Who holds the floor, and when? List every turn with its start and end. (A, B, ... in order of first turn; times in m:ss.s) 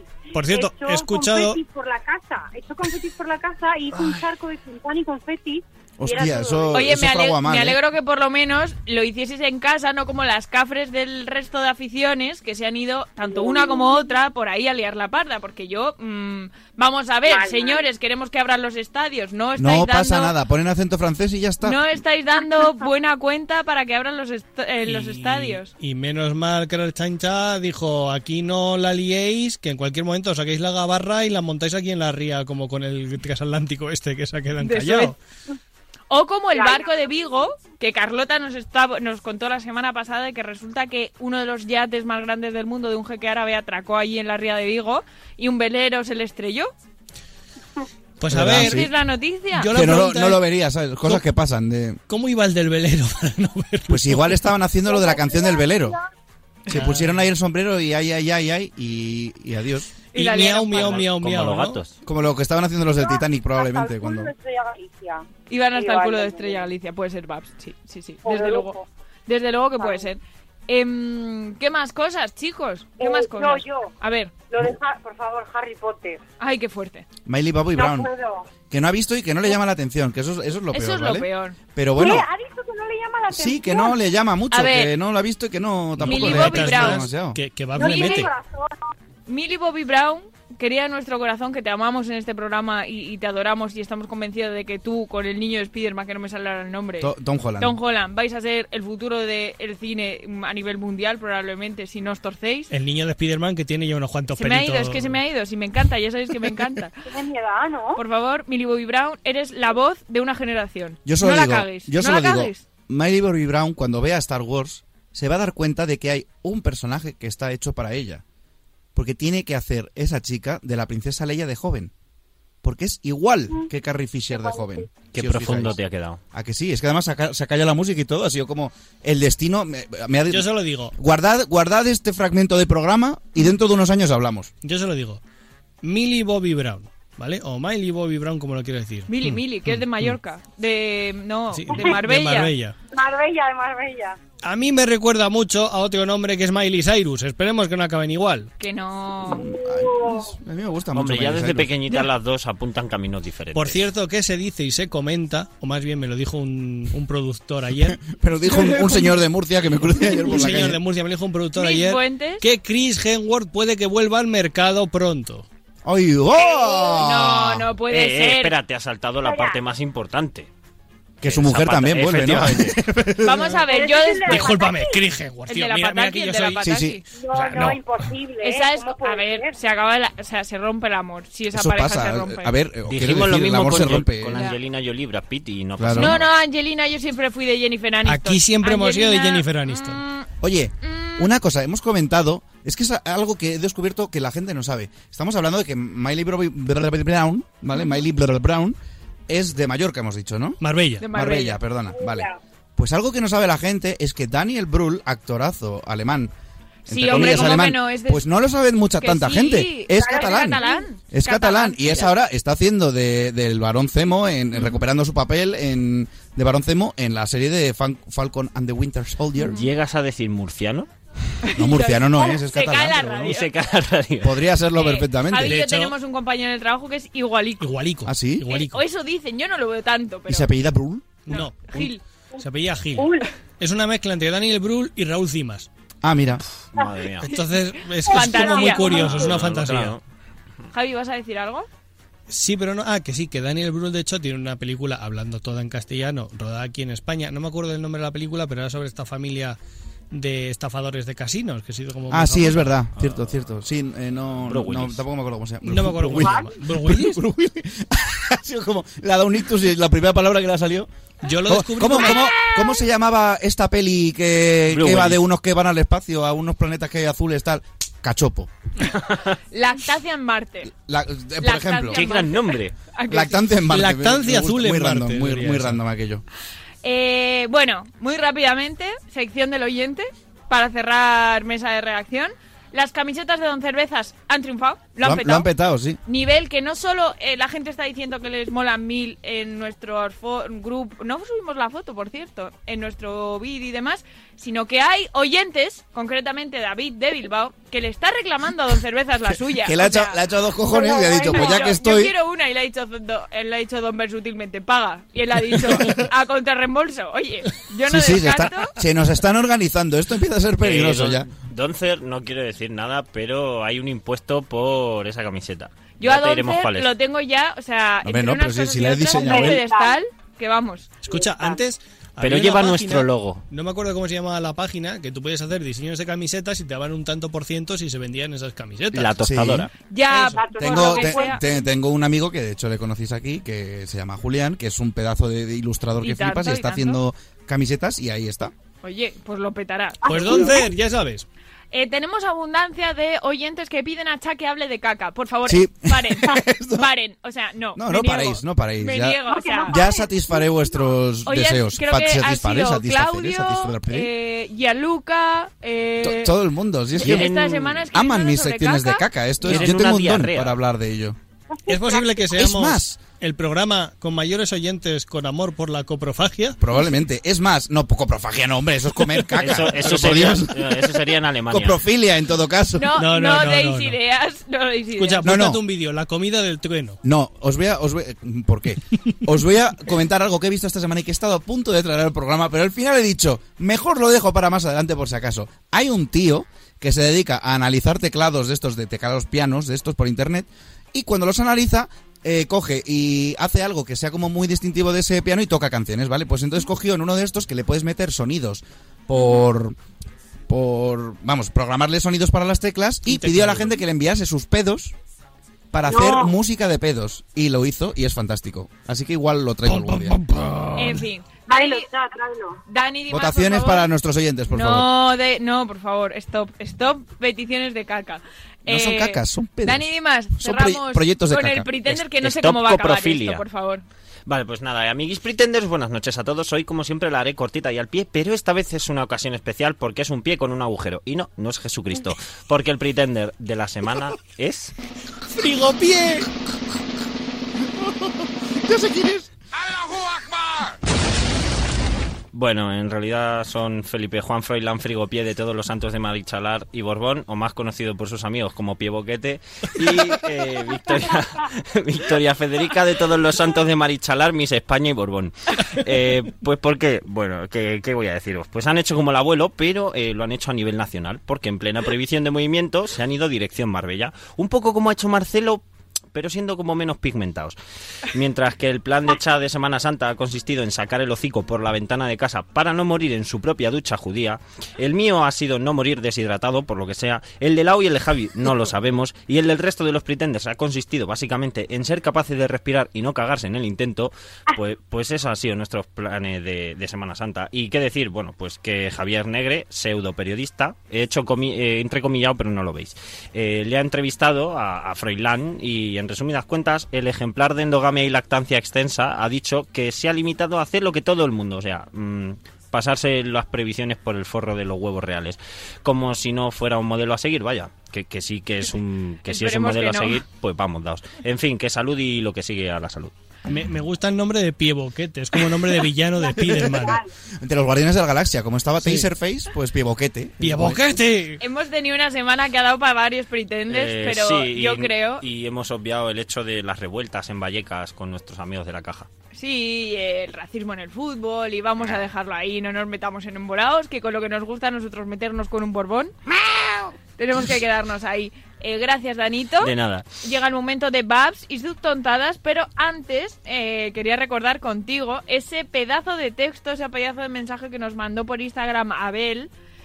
0:00.3-0:01.6 A
0:00.4-0:07.0 B
0:06.0-0:07.8 C
0:06.7-0:20.4 D
0:13.3-0:14.1 B
0:17.3-0:17.8 B
0:19.6-0:21.8 C
0:21.6-0:25.7 D
0:24.8-0:35.2 A
0:34.6-0:35.2 D
0:36.1-0:46.7 D
0:36.5-0:37.4 B
0:48.2-0:48.9 A
0:48.3-0:48.9 C
0:48.5-0:49.8 D
0:49.5-0:50.4 A
0:49.7-0:52.0 C
0:52.1-0:54.4 A
0:53.9-0:56.0 C
0:54.9-0:56.0 B
0:56.7-0:59.9 C
0:56.7-0:57.3 A
1:00.1-1:01.1 D
1:00.1-1:01.8 A
1:00.7-1:01.9 E
1:02.0-1:04.3 C
1:03.0-1:06.7 B
1:05.5-1:08.8 D
1:08.2-1:08.9 B
1:09.3-1:14.4 D
1:09.8-1:10.1 B
1:13.0-1:16.2 B
1:16.4-1:17.1 D
1:17.2-1:18.1 C
1:17.7-1:18.5 B
1:18.7-1:22.3 C
1:20.7-1:21.6 D
1:22.0-1:24.0 B
1:23.3-1:27.4 C
1:24.5-1:24.9 D
1:26.0-1:28.3 A
1:26.1-1:27.1 D
1:27.8-1:28.8 B
1:27.8-1:28.2 D
1:29.3-1:42.7 D
1:37.0-1:37.8 C
1:42.7-1:45.2 A
1:44.4-1:47.0 D
1:47.1-1:48.0 B
1:48.0-1:52.6 D
1:51.0-1:58.2 C
1:59.0-2:01.9 C
2:02.6-2:05.8 C
2:04.4-2:04.6 B
2:05.1-2:06.2 E
2:06.3-2:14.5 C
2:10.3-2:11.0 A
2:14.6-2:15.2 A
2:15.8-2:20.1 A
2:19.1-2:22.5 D
2:21.5-2:22.8 A
2:22.9-2:24.2 B
2:24.4-2:28.5 A
2:28.6-2:29.5 D
2:29.3-2:31.7 C
2:29.4-2:30.3 B
2:30.9-2:33.8 E
2:33.5-2:38.0 A
2:37.8-2:40.8 C
2:38.5-2:39.2 D
2:40.1-2:45.5 A
2:41.6-2:42.4 D
2:45.8-2:47.7 C
2:46.4-2:48.6 D
2:47.9-2:50.5 E
2:49.2-2:49.6 B
2:51.2-2:52.8 E
2:51.2-2:53.6 C
2:53.2-2:54.7 D
2:53.7-2:55.0 B
2:54.2-2:56.7 A
2:55.5-2:57.0 D
2:56.6-2:57.0 C
2:57.2-2:59.6 B
2:57.3-2:57.8 A
2:58.4-3:02.5 D
3:01.5-3:04.4 C
3:02.9-3:06.3 E
3:05.8-3:06.2 C
3:06.0-3:10.3 D
3:08.0-3:10.0 A
3:10.4-3:18.8 C
3:10.8-3:11.3 D
3:19.3-3:26.3 C
3:20.6-3:21.0 A
3:21.0-3:21.6 D
3:21.9-3:22.4 B
3:26.9-3:28.2 D
3:26.9-3:39.6 C
3:29.0-3:32.1 D
3:30.0-3:30.8 B
3:39.4-3:40.9 E
3:41.4-3:43.5 D
3:41.5-3:43.3 C
3:43.2-3:44.4 E
3:44.2-3:45.6 C
3:44.7-3:47.8 D
3:45.5-3:45.9 A
3:47.6-3:48.8 A
3:48.1-3:48.5 C
3:48.5-3:50.5 D
3:50.3-3:51.1 C
3:51.3-3:53.1 A
3:51.3-3:52.0 D
3:53.0-3:53.3 B
3:53.6-3:55.7 A
3:56.0-3:56.4 C
3:56.7-3:57.3 E
3:57.2-4:00.0 A
3:57.3-3:59.3 D
3:58.8-4:00.0 E
4:00.7-4:01.7 D
4:02.3-4:09.6 A
4:10.1-4:12.8 A
4:12.1-4:20.9 C
4:14.5-4:15.0 E
4:15.6-4:17.2 A
4:16.2-4:16.5 B
4:21.2-4:22.3 A
4:21.5-4:28.5 C
4:24.7-4:25.2 E
4:28.9-4:29.4 E
4:29.5-4:30.7 D
4:30.8-4:32.0 C
4:31.4-4:33.6 D
4:31.9-4:32.8 E
4:33.1-4:36.2 C
4:33.7-4:35.8 A
4:36.8-4:45.5 D
4:45.0-4:46.0 C
4:46.1-5:00.2 D
4:59.3-5:02.1 C
5:00.7-5:01.7 B
5:00.9-5:08.8 D
5:07.9-5:11.3 C
5:10.6-5:16.9 E
5:16.0-5:21.0 D
5:18.0-5:19.7 C
5:19.1-5:20.0 B
5:21.0-5:29.2 A
5:21.1-5:21.6 B
5:22.2-5:23.4 E
5:28.9-5:29.7 E
5:29.2-5:29.7 C
5:29.9-5:31.4 D
5:30.1-5:31.4 B
5:30.6-5:38.5 C
5:36.0-5:37.0 D
5:38.8-5:40.6 D
5:40.0-5:40.6 B
5:40.0-5:41.3 A
5:41.7-5:49.8 D
5:45.5-5:46.9 C
5:47.8-5:54.1 C
5:49.3-5:50.9 B
5:51.2-5:56.3 D
5:56.0-5:57.3 C
5:57.0-5:57.8 E
5:57.0-5:59.0 D
5:57.9-6:01.2 C
5:59.4-6:00.6 E
6:01.6-6:02.2 B
6:01.7-6:06.6 A
6:02.3-6:03.0 C
6:06.6-6:12.9 C
6:09.4-6:11.8 E
6:12.8-6:15.4 D
6:13.0-6:14.0 A
6:15.0-6:17.0 A
6:15.2-6:15.6 C
6:17.0-6:39.8 C
6:40.5-6:45.0 C
6:43.1-6:43.8 A
6:45.7-6:50.2 C
6:45.9-6:46.3 B
6:49.7-6:51.0 A
6:50.8-6:51.9 D
6:51.5-6:52.6 B
6:52.7-6:53.9 D
6:53.1-6:54.9 C
6:54.5-7:03.8 D
6:58.7-7:01.7 C
7:01.9-7:03.4 E
7:04.3-7:14.7 E
7:15.4-7:16.3 A
7:18.7-7:19.3 C
7:22.3-8:33.1 E
8:29.3-8:30.2 D
8:33.5-8:37.0 A
8:36.4-8:36.8 C
8:36.5-8:37.1 B
8:37.4-8:40.8 C
8:38.8-8:39.1 A
8:40.4-8:41.4 A
8:41.4-8:45.2 D
8:43.7-8:49.1 E
8:49.3-8:56.1 D
8:57.2-9:09.5 D
8:59.6-9:00.1 E